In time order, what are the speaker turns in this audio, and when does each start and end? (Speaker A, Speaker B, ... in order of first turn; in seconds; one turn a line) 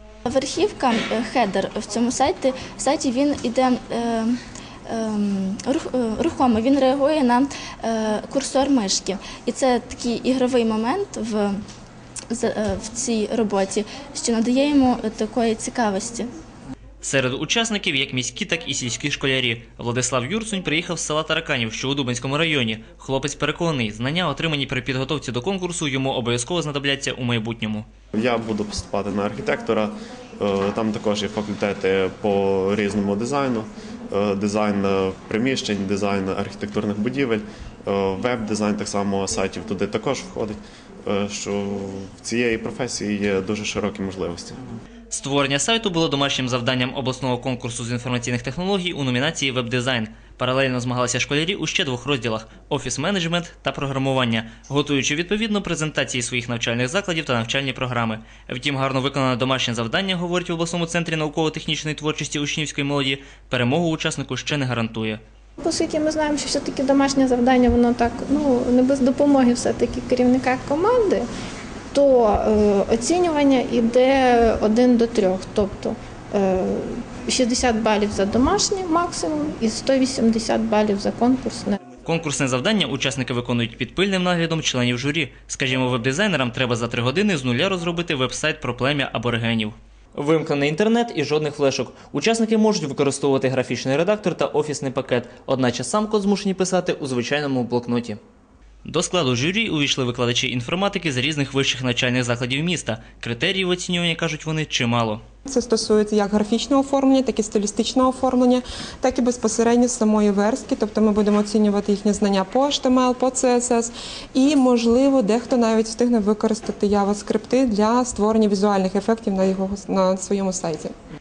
Speaker A: 0.2-11.6
Speaker A: 12.3-16.3
Speaker B: 17.0-27.9
Speaker C: 28.1-44.6
Speaker B: 45.1-65.2
Speaker D: 65.6-71.3
Speaker D: 71.9-81.8
Speaker B: 82.0-98.2
Speaker B: 98.8-105.2
Speaker E: 105.5-120.9